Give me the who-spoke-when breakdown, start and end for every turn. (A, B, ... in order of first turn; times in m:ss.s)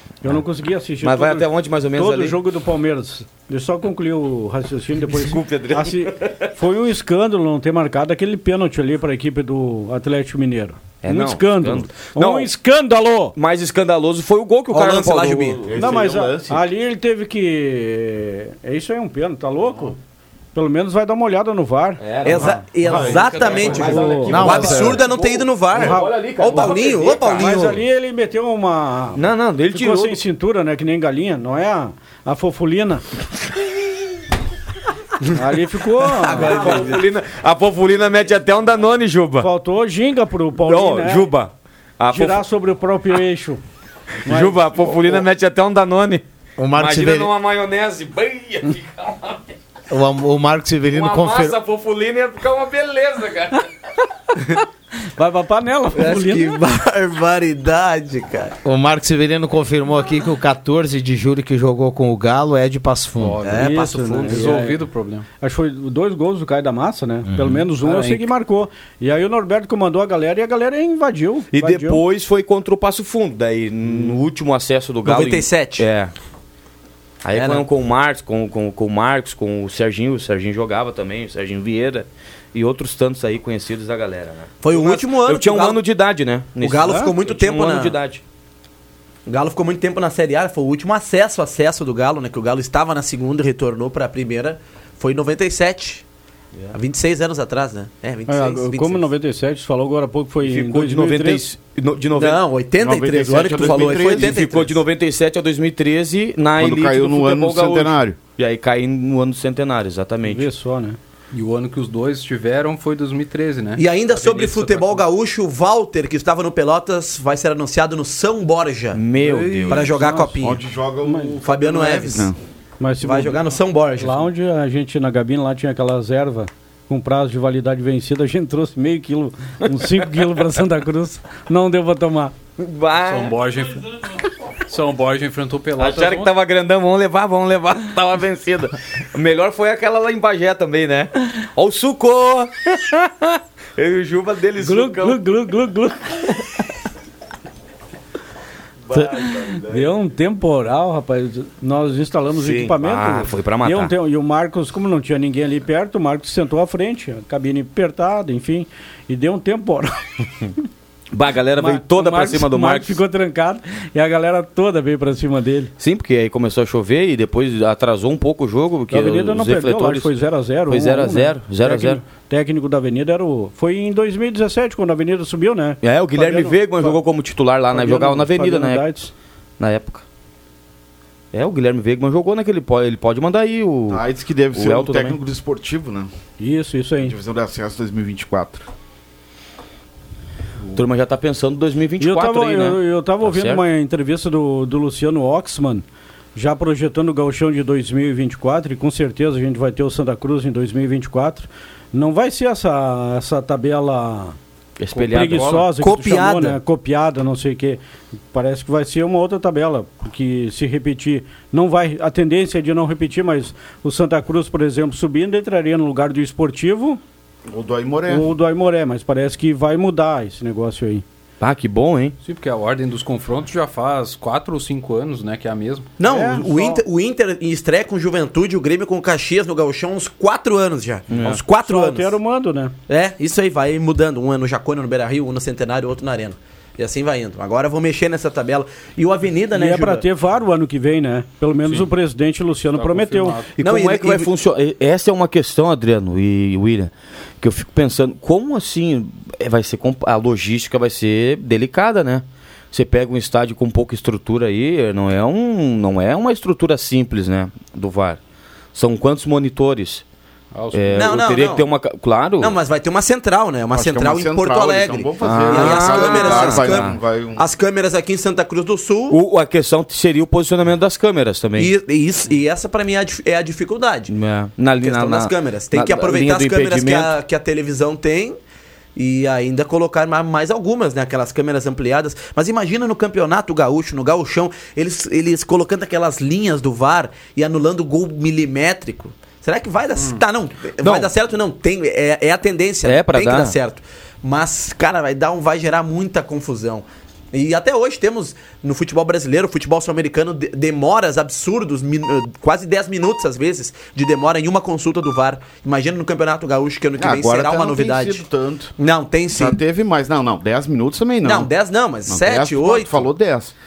0:00.2-0:13.4 A
0:01.0-0:02.4 B
0:05.2-0:06.5 B
0:11.0-0:12.5 B
0:13.4-0:15.6 B
0:14.7-0:15.7 C
0:15.6-0:16.6 D
0:15.7-0:20.0 A
0:20.5-0:23.0 A
0:22.0-0:27.6 B
0:22.2-0:27.8 C
0:22.8-0:23.5 D
0:23.6-0:24.9 A
0:24.3-0:24.9 E
0:25.8-0:29.2 A
0:29.1-0:30.2 B
0:29.7-0:33.0 A
0:35.3-0:36.7 A
0:36.2-0:37.0 C
0:36.3-0:39.5 B
0:39.4-0:41.3 A
0:40.6-0:42.4 B
0:42.1-0:43.6 A
0:44.2-0:45.2 A
0:44.3-0:46.2 B
0:46.6-0:47.3 E
0:46.7-0:49.4 B
0:49.9-0:51.5 E
0:50.9-0:53.6 B
0:55.2-0:56.6 A
0:55.9-0:58.5 C
0:58.6-1:03.6 E
1:03.2-1:05.2 F
1:03.4-1:04.5 C
1:03.6-1:04.8 A
1:05.4-1:12.0 A
1:07.8-1:08.3 F
1:11.5-1:16.1 B
1:15.0-1:15.8 C
1:17.2-1:28.2 B
1:17.3-1:17.6 C
1:24.6-1:25.8 C
1:26.6-1:27.9 C
1:26.8-1:27.1 A
1:29.3-1:36.0 C
1:36.7-1:39.1 C
1:38.3-1:41.5 A
1:40.4-1:42.4 B
1:42.1-1:44.8 C
1:42.8-1:44.4 D
1:43.6-1:50.5 B
1:46.6-1:48.2 D
1:50.2-1:51.0 A
1:51.3-1:55.0 F
1:53.8-1:59.0 C
1:58.9-1:59.9 B
1:59.2-2:00.3 A
1:59.7-2:00.6 C
2:00.4-2:02.4 D
2:01.0-2:01.8 A
2:01.4-2:02.3 C
2:02.8-2:03.4 A
2:03.0-2:04.3 C
2:04.0-2:12.3 A
2:12.6-2:13.3 B
2:13.0-2:13.8 F
2:14.7-2:16.3 F
2:15.8-2:25.2 B
2:24.6-2:26.2 A
2:28.9-2:29.5 B
2:29.6-2:40.0 A
2:32.3-2:33.9 B
2:41.1-2:43.0 B
2:41.6-2:45.7 A
2:45.8-2:50.1 B
2:48.9-2:57.0 A
2:50.7-2:52.0 B
2:55.8-2:58.8 B
2:57.7-2:59.1 A
2:59.6-3:00.0 B
3:01.3-3:05.2 B
3:03.9-3:06.1 D
3:06.4-3:07.1 A
3:07.0-3:08.6 D
3:10.7-3:13.6 B
3:12.0-3:24.4 A
3:24.8-3:25.6 B
3:25.0-3:27.8 A
3:25.2-3:25.6 F
3:25.8-3:26.6 C
3:28.3-3:37.0 A
3:37.5-3:38.3 D
3:38.1-3:41.0 A
3:41.4-3:42.1 B
3:42.2-3:45.9 F
3:46.0-3:52.1 C
3:46.0-3:46.8 A
3:51.1-3:51.4 B
3:51.2-3:52.7 A
3:52.9-4:00.0 C
3:59.5-4:03.4 A
4:02.7-4:03.5 F
4:03.6-4:18.2 B
4:03.6-4:04.3 C
4:18.7-4:20.0 B
4:20.5-4:21.0 F
4:20.7-4:22.6 B
4:21.0-4:21.6 C
4:22.4-4:29.2 C
4:23.7-4:27.4 D
4:25.2-4:27.0 B
4:29.1-4:31.7 B
4:31.6-4:34.1 C
4:34.1-4:37.1 B
4:34.8-4:38.4 C
4:39.0-5:08.2 C
4:50.8-4:51.1 B
4:52.8-4:53.5 B
5:07.0-5:08.7 D
5:08.8-5:09.6 C
5:09.3-5:11.5 D
5:11.2-5:13.1 C
5:12.1-5:13.5 D